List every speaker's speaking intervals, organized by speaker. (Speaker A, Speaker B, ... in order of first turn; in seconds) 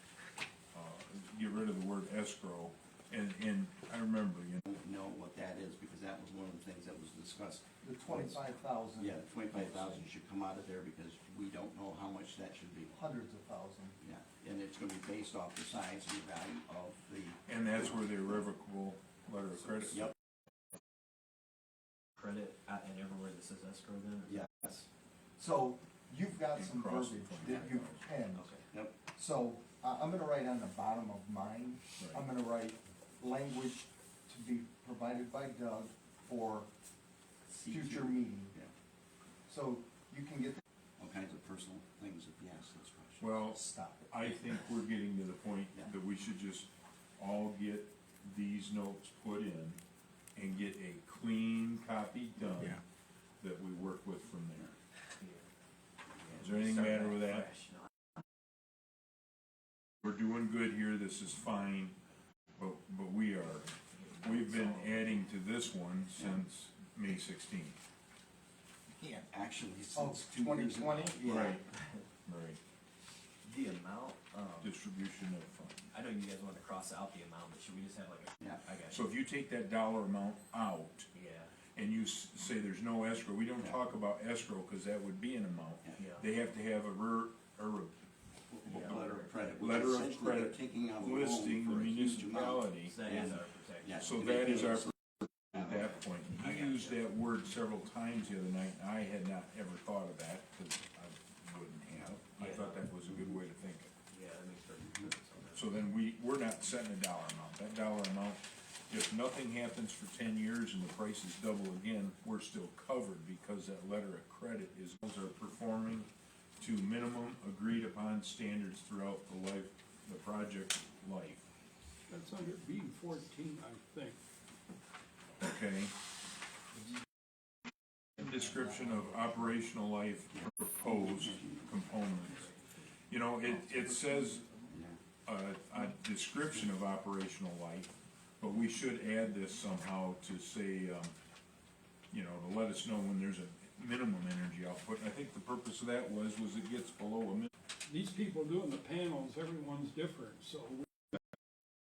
Speaker A: 0.7-4.6, 17.5-20.1, 26.6-28.0, 32.0-32.3, 43.2-49.8, 50.4-52.8, 53.4-54.8, 56.3-57.5, 60.0-62.0, 62.6-63.7, 64.2-67.8, 71.2-71.6, 72.3-72.6, 74.6-75.9, 78.9-81.1, 81.8-88.0, 88.7-93.0, 94.0-95.0, 95.5-103.9, 105.5-121.5, 125.4-125.9, 128.2-132.4, 133.1-134.4, 135.3-141.2, 142.1-147.5
Speaker B: 4.7-8.4, 9.0-12.9, 14.0-17.4, 24.3-24.7, 28.7-29.0, 37.5-38.7, 41.0-43.2, 69.3-71.6, 88.5-94.9, 131.2-131.6, 134.7-135.0
Speaker C: 7.8-9.2, 12.9-14.0, 25.4-28.5, 29.1-36.7, 37.7-38.6, 39.5-40.6, 43.5-44.1, 69.0-69.3, 69.9-71.2, 133.4-134.8
Speaker D: 22.2-24.8, 28.3-28.7, 56.2-57.9, 63.9-65.2, 71.3-72.0, 73.4-74.7, 75.9-79.0, 81.1-81.5, 86.0-86.3, 88.7-89.2, 92.8-94.4, 96.3-97.0, 102.4-103.3, 104.1-105.7, 132.0-132.5
Speaker E: 122.1-124.2, 147.9-150.9